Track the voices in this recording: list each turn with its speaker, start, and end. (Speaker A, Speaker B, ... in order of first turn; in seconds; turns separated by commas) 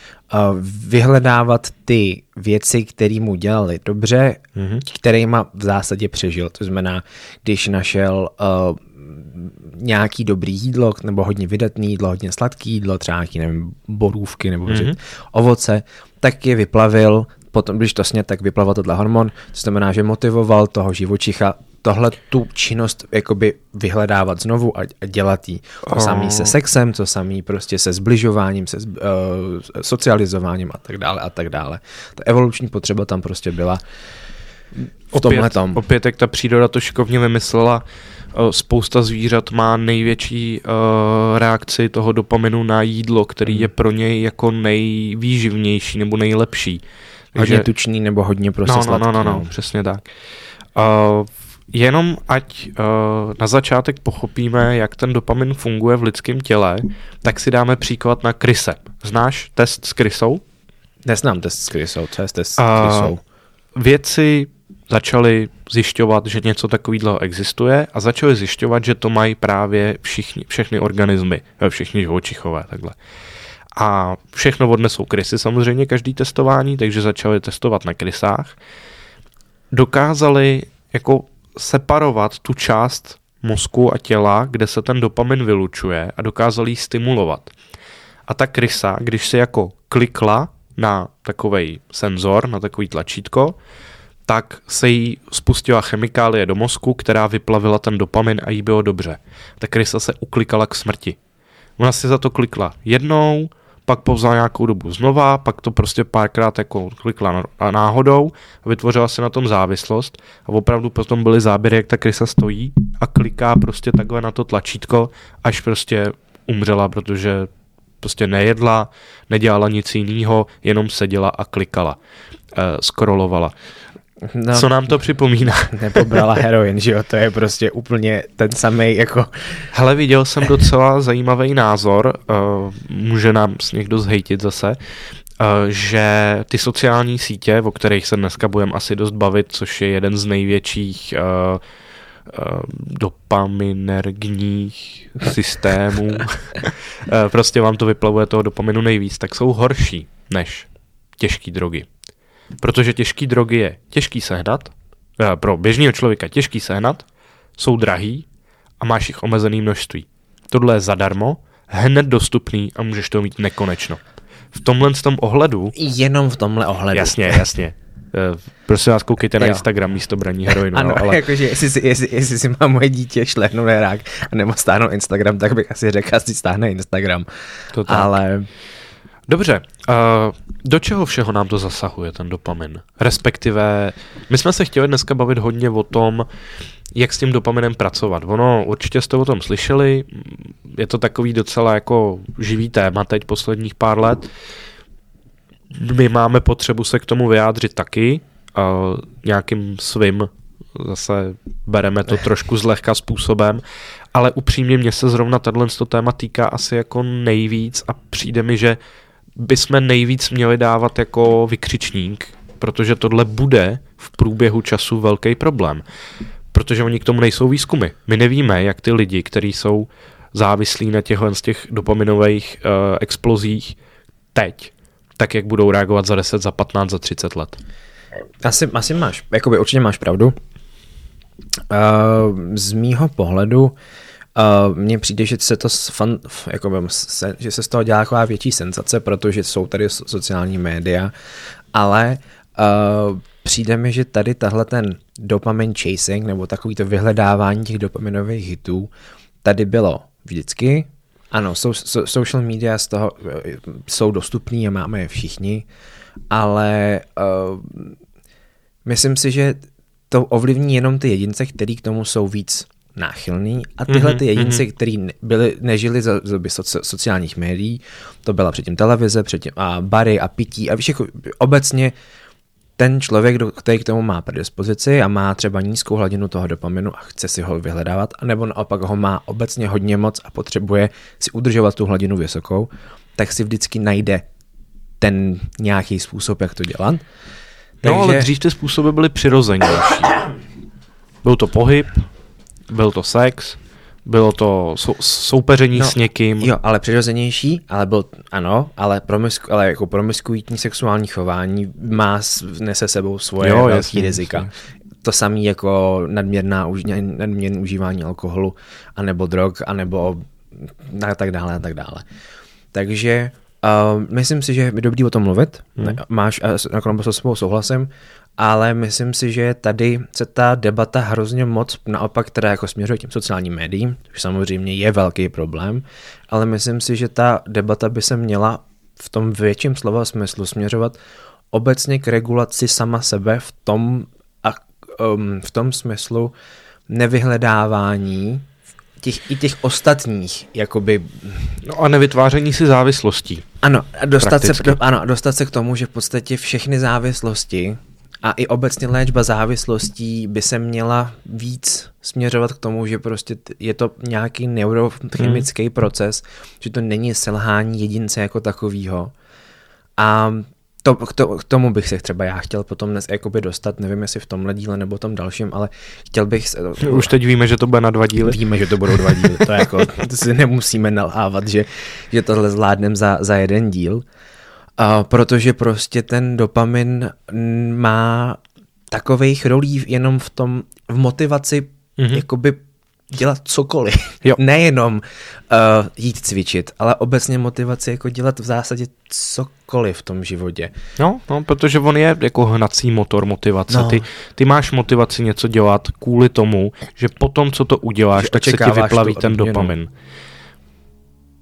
Speaker A: 0.3-33.8, Speaker B: 4.5-4.8, Speaker B: 14.7-14.9, Speaker B: 25.9-26.6, Speaker B: 35.1-46.8, Speaker A: 35.1-35.8, Speaker A: 43.5-43.7, Speaker B: 47.3-47.6, Speaker A: 47.4-49.5, Speaker B: 48.6-50.0, Speaker B: 50.7-60.4, Speaker A: 61.0-63.2, Speaker B: 62.6-63.1, Speaker B: 63.7-73.0, Speaker B: 73.8-78.5, Speaker B: 79.7-87.5, Speaker B: 88.3-93.5, Speaker B: 94.3-101.2, Speaker B: 101.8-117.5, Speaker B: 118.0-122.0, Speaker B: 122.5-123.5, Speaker A: 124.3-124.9, Speaker B: 124.5-126.3, Speaker A: 125.7-129.7, Speaker B: 129.7-134.8, Speaker B: 135.4-141.6, Speaker B: 142.3-150.7, Speaker B: 151.2-151.9, Speaker B: 152.6-157.1, Speaker B: 157.6-158.2, Speaker B: 158.8-164.0, Speaker B: 164.5-165.7, Speaker A: 165.7-167.4, Speaker B: 166.9-171.2, Speaker A: 169.4-169.6, Speaker A: 170.5-177.3, Speaker B: 177.7-178.1, Speaker A: 177.8-178.5, Speaker B: 179.3-186.3, Speaker B: 186.9-194.3, Speaker B: 195.7-203.6, Speaker B: 204.1-208.8, Speaker B: 209.4-215.8, Speaker B: 216.5-223.8, Speaker B: 224.3-227.6, Speaker A: 228.4-230.3, Speaker A: 231.7-233.7, Speaker A: 234.3-241.1, Speaker A: 241.7-248.9, Speaker A: 249.4-255.7, Speaker A: 256.3-258.0, Speaker A: 258.8-271.9, Speaker B: 263.9-264.6, Speaker A: 272.8-284.2, Speaker A: 285.0-287.0, Speaker A: 287.8-288.3, Speaker B: 287.8-290.3, Speaker B: 291.2-292.0, Speaker B: 292.7-296.5, Speaker A: 295.7-304.5, Speaker B: 303.4-304.5, Speaker A: 305.0-312.0, Speaker A: 312.7-331.0, Speaker A: 331.5-336.3, Speaker A: 336.9-338.5, Speaker A: 339.0-341.6, Speaker B: 341.6-343.4, Speaker A: 343.6-359.1, Speaker B: 344.2-344.8, Speaker B: 355.2-355.4, Speaker A: 360.0-367.1, Speaker B: 366.8-368.4, Speaker A: 368.2-374.0, Speaker B: 369.1-369.4, Speaker A: 374.8-378.4, Speaker A: 378.9-390.7, Speaker B: 382.0-382.2, Speaker B: 391.0-399.9, Speaker A: 393.7-394.0, Speaker A: 398.2-399.7